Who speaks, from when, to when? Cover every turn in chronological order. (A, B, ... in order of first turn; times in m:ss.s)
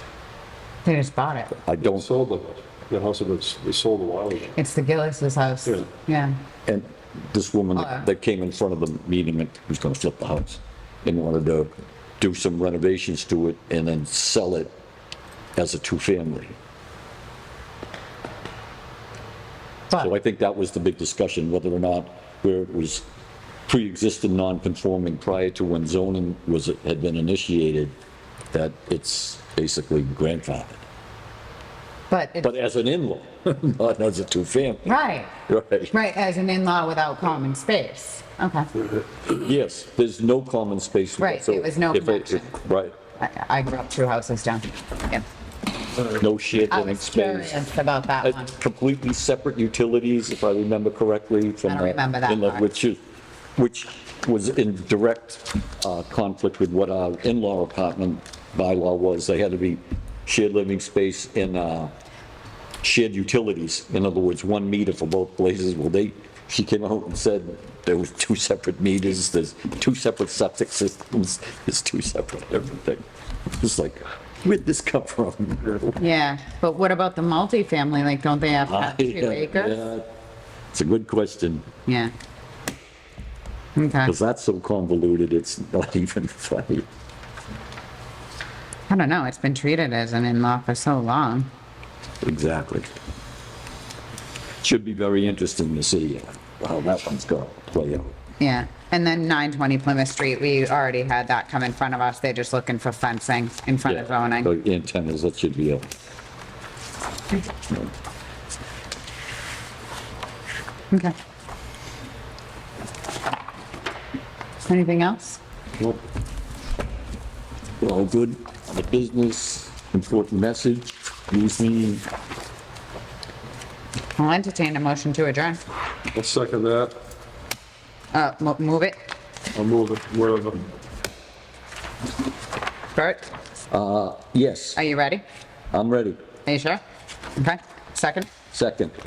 0:00.8-0:01.6 A
0:01.6-0:02.1 B
0:01.8-0:04.5 C
0:04.5-0:06.3 A
0:06.6-0:14.7 B
0:07.8-0:08.0 A
0:15.6-0:16.6 B
0:19.9-0:23.0 B
0:23.7-0:27.9 B
0:28.5-0:30.8 B
0:32.1-0:32.5 A
0:32.4-0:34.9 B
0:34.8-0:35.3 A
0:35.4-0:35.9 B
0:35.9-0:38.7 A
0:39.2-0:42.9 B
0:41.2-0:42.6 A
0:43.2-0:45.2 A
0:46.0-0:47.6 B
0:46.7-0:48.5 A
0:48.2-0:53.0 B
0:51.6-0:52.6 A
0:53.6-1:01.9 B
1:02.8-1:13.0 B
1:13.6-1:15.9 B
1:16.0-1:19.8 A
1:18.7-1:20.0 B
1:20.7-1:21.7 B
1:21.9-1:22.1 A
1:23.8-1:24.1 A
1:24.0-1:26.8 B
1:28.9-1:31.5 A
1:32.2-1:32.9 B
1:34.6-1:38.1 B
1:38.4-1:44.5 A
1:43.8-1:45.9 B
1:54.6-1:55.4 A
1:57.8-2:02.0 B
2:04.2-2:05.6 A
2:06.1-2:06.9 C
2:08.1-2:09.0 A
2:09.5-2:10.6 C
2:12.9-2:13.3 A
2:13.7-2:14.8 B
2:14.8-2:15.2 A
2:15.7-2:16.2 B
2:16.4-2:16.8 A
2:17.4-2:18.3 A
2:18.5-2:18.9 B